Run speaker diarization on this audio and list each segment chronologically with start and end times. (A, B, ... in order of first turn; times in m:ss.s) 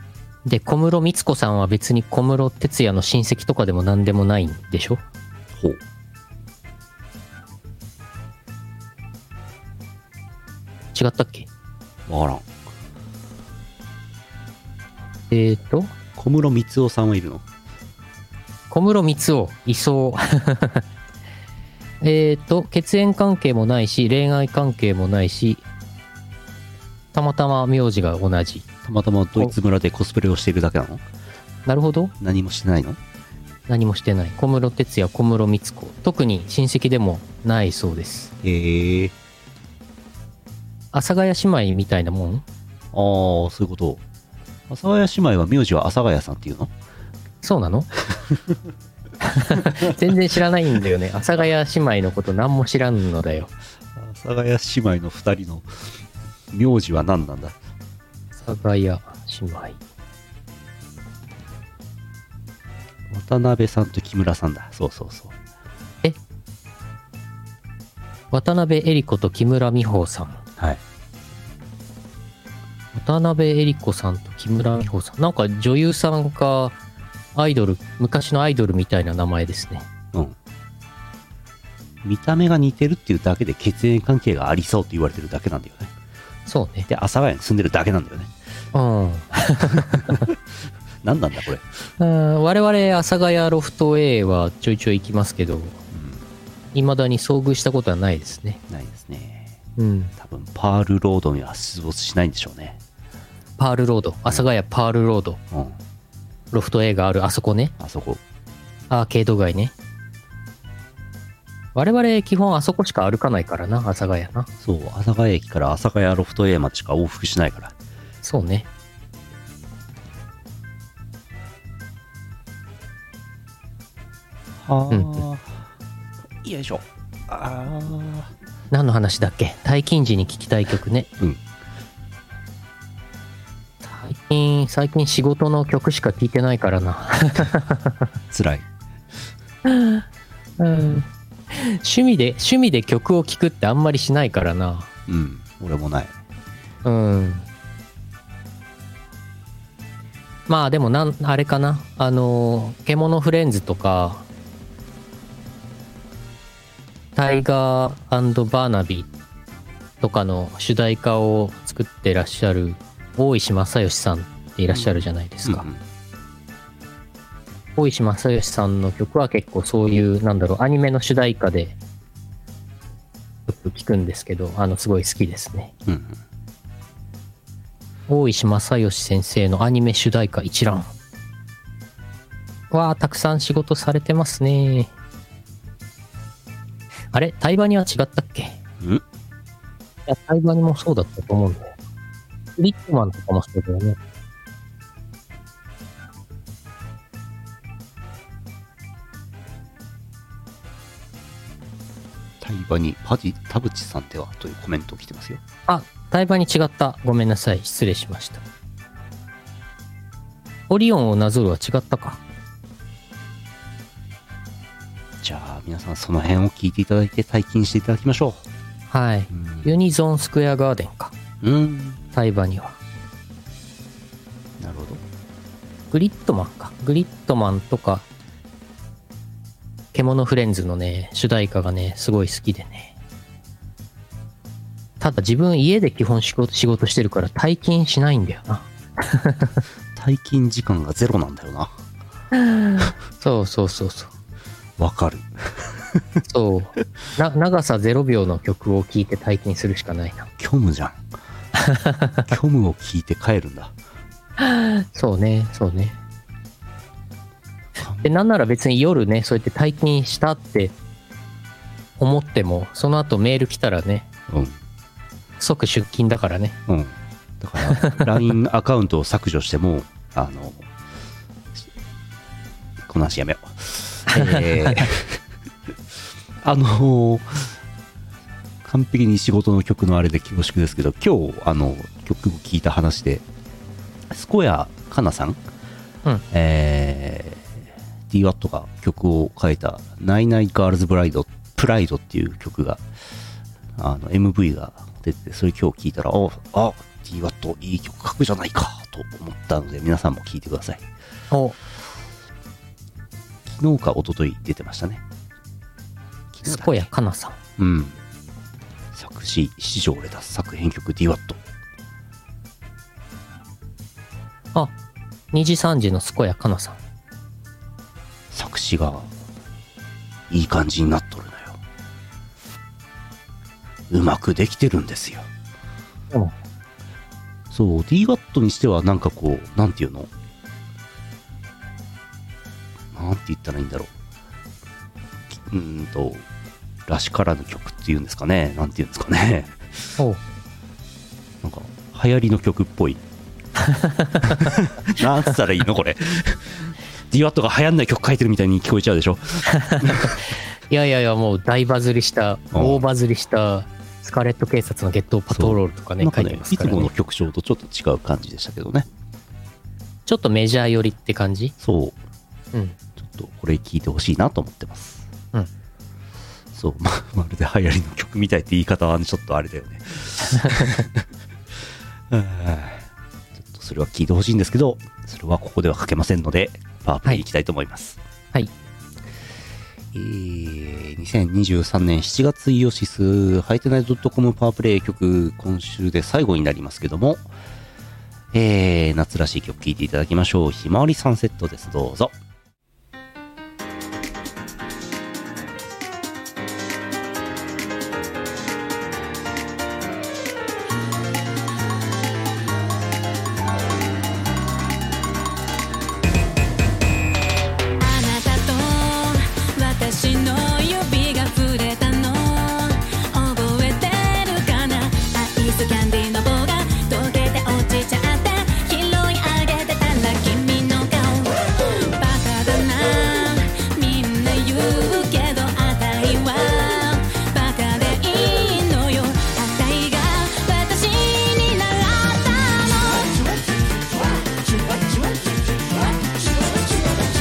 0:00.4-0:05.0 A
0:05.5-0:05.8 B
0:10.9-0:11.5 A
0:12.1-0:12.5 B
0:15.3-0:15.9 A
0:16.2-0:17.4 B
0:18.7-0:20.8 A
0:22.0-0:25.6 A
0:27.1-0:28.7 A
0:28.8-0:31.0 B
0:31.6-0:32.1 A
0:32.2-0:33.0 B
0:33.7-0:38.3 A
0:38.4-0:39.1 B
0:40.9-0:42.4 A
0:42.9-0:44.0 B
0:44.7-0:46.7 B
0:47.4-0:47.9 A
0:49.2-0:53.5 A
0:49.5-0:49.8 B
0:54.0-0:55.7 B
0:56.5-0:57.6 B
0:58.4-0:59.8 A
1:03.1-1:05.4 B
1:08.3-1:10.4 A
1:12.9-1:16.8 A
1:17.3-1:19.9 A
1:22.0-1:25.9 B
1:26.4-1:26.9 A
1:26.9-1:28.3 B
1:28.7-1:30.2 A
1:29.8-1:30.3 B
1:31.0-1:31.6 B
1:32.0-1:35.8 A
1:35.9-1:36.2 B
1:36.7-1:38.6 A
1:38.7-1:39.5 B
1:39.8-1:40.1 A
1:40.2-1:42.8 B
1:43.6-1:45.4 A
1:45.5-1:45.8 B
1:46.5-1:47.7 A
1:47.8-1:48.2 B
1:48.9-1:49.7 A
1:51.7-1:54.5 A
1:54.6-1:57.7 B
1:58.2-1:58.7 A
2:04.6-2:05.6 B
2:04.9-2:05.2 A
2:06.4-2:08.3 B
2:08.7-2:11.1 A
2:13.8-2:18.0 A
2:18.3-2:18.6 B
2:19.6-2:20.0 A
2:20.6-2:24.9 A
2:25.1-2:26.1 B
2:26.8-2:27.4 A
2:30.5-2:34.2 A
2:37.2-2:39.1 A
2:40.0-2:45.6 A
2:45.4-2:45.8 B
2:47.8-2:51.8 A
2:53.5-2:55.7 A
2:55.9-2:56.2 B
2:58.1-3:00.9 A
3:02.7-3:04.9 A
3:07.1-3:08.6 A
3:10.1-3:11.7 A
3:12.6-3:14.0 A
3:22.4-3:25.4 B
3:25.7-3:28.4 A
3:30.7-3:32.2 A
3:35.2-3:38.4 B
3:38.9-3:41.1 A
3:39.3-3:39.6 B
3:41.4-3:42.0 B
3:42.1-3:42.8 A
3:44.6-3:45.0 B
3:45.9-3:48.0 A
3:49.9-3:52.9 A
3:55.0-3:59.6 A
3:59.9-4:01.7 B
4:02.3-4:04.1 A
4:04.8-4:06.0 B
4:06.3-4:10.3 A
4:10.4-4:11.0 B
4:11.6-4:12.2 A
4:12.3-4:13.7 B
4:14.4-4:16.0 A
4:17.8-4:18.1 B
4:18.0-4:20.7 A
4:22.0-4:24.1 A
4:24.3-4:24.6 B
4:25.4-4:26.6 A
4:26.7-4:30.7 B
4:27.7-4:28.1 A
4:32.9-4:35.2 B
4:34.1-4:34.9 A
4:36.4-4:37.6 B
4:38.6-4:43.2 B
4:44.1-4:45.4 B
4:46.3-4:52.8 B
4:53.8-5:00.8 B
5:01.3-5:01.6 A
5:03.5-5:05.0 B
5:06.3-5:06.9 B
5:06.4-5:07.4 A
5:07.6-5:08.0 B
5:08.9-5:11.4 B
5:15.3-5:16.8 A
5:18.3-5:19.1 B
5:20.3-5:21.6 B
5:23.9-5:25.3 B
5:27.5-5:30.1 B
5:32.9-5:33.9 B
5:35.3-5:36.2 B
5:36.9-5:39.6 B
5:41.4-5:43.0 B
5:43.6-5:44.5 A
5:44.2-5:50.2 B
5:49.6-5:50.2 A
5:50.7-5:56.9 A
5:52.5-5:52.8 B
5:55.3-5:58.9 B
6:00.1-6:01.5 A
6:01.6-6:02.0 B
6:03.0-6:05.1 B
6:06.5-6:11.0 B
6:10.4-6:10.8 A
6:12.1-6:18.0 B
6:19.9-6:27.3 B
6:28.3-6:32.2 B
6:47.8-7:13.3 C
7:16.0-7:16.4 C